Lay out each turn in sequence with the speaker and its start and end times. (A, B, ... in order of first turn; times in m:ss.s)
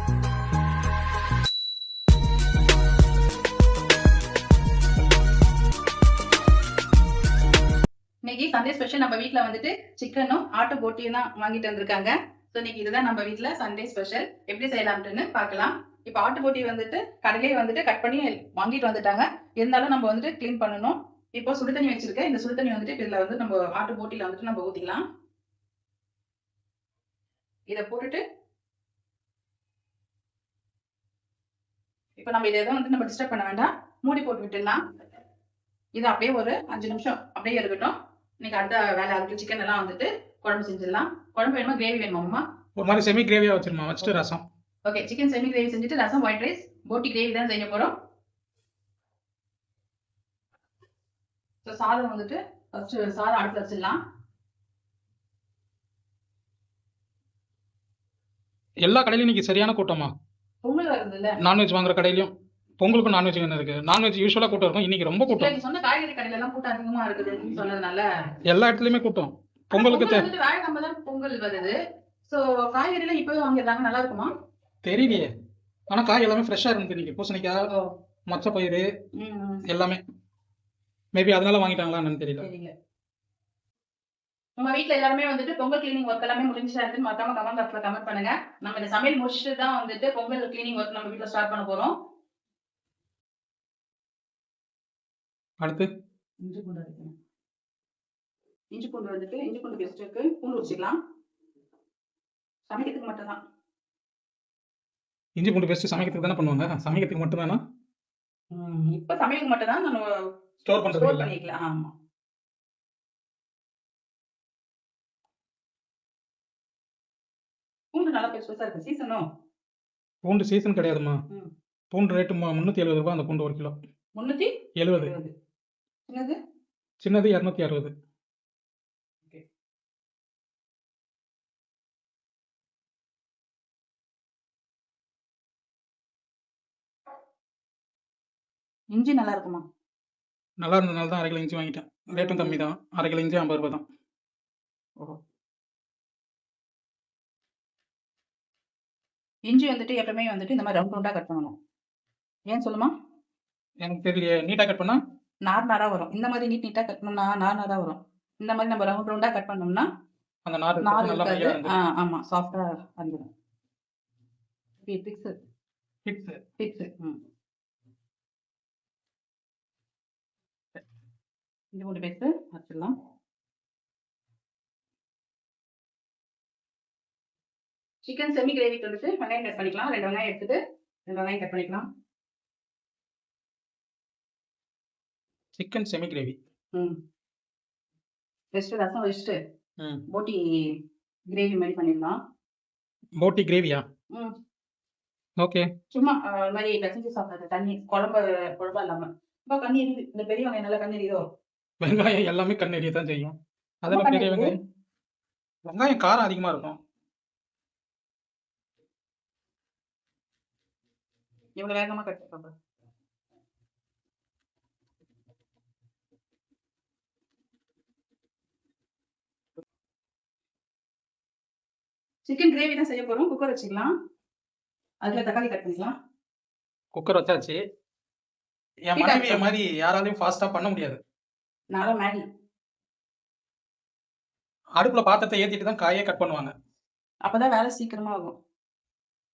0:08.2-0:25.0 A
0:27.7-0:28.2 A
0:32.2-0:34.8 A
0:35.9-0:42.4 A
0:42.8-0:44.4 B
0:44.8-0:47.9 A
0:51.6-0:54.0 A
0:58.8-1:00.1 B
1:00.6-1:01.4 A
1:01.4-1:05.5 B
1:05.3-1:08.0 A
1:08.5-1:10.3 B
1:09.7-1:11.8 A
1:12.3-1:14.3 A
1:14.8-1:15.3 B
1:15.9-1:17.7 B
1:18.3-1:18.9 B
1:19.2-1:19.6 A
1:19.7-1:20.0 B
1:21.1-1:22.4 B
1:22.4-1:22.7 A
1:24.6-1:31.9 A
1:35.6-1:35.9 B
1:36.4-1:37.1 A
1:38.7-1:41.0 A
1:42.7-1:43.4 A
1:45.4-1:47.6 B
1:48.5-1:50.0 A
1:50.6-1:51.3 B
1:50.8-1:51.9 A
1:57.9-1:59.2 A
2:00.2-2:01.2 B
2:01.9-2:03.7 B
2:04.1-2:05.3 A
2:04.8-2:05.1 B
2:06.1-2:06.4 A
2:07.0-2:07.9 B
2:18.9-2:19.6 A
2:20.6-2:23.8 B
2:22.1-2:22.6 A
2:29.5-2:31.5 A
2:32.5-2:32.9 A
2:33.8-2:35.0 B
2:35.4-2:39.9 A
2:40.4-2:41.8 B
2:40.8-2:43.3 A
2:44.8-2:45.4 A
2:46.0-2:46.4 B
2:46.6-2:47.2 A
2:51.7-2:52.9 A
2:58.0-3:01.8 A
3:05.6-3:06.4 B
3:08.5-3:09.4 A
3:09.8-3:10.0 B
3:10.1-3:10.8 A
3:11.3-3:12.2 A
3:13.2-3:13.8 B
3:15.4-3:15.7 B
3:15.9-3:21.3 A
3:21.8-3:24.6 B
3:23.9-3:24.5 A
3:25.6-3:26.8 B
3:31.6-3:32.5 A
3:42.2-3:43.9 A
3:45.0-3:45.9 A
3:46.9-3:47.6 B
3:48.9-3:51.0 B
3:49.0-3:49.4 A
3:51.7-3:52.2 A
3:54.8-3:56.5 B
3:57.2-3:58.4 A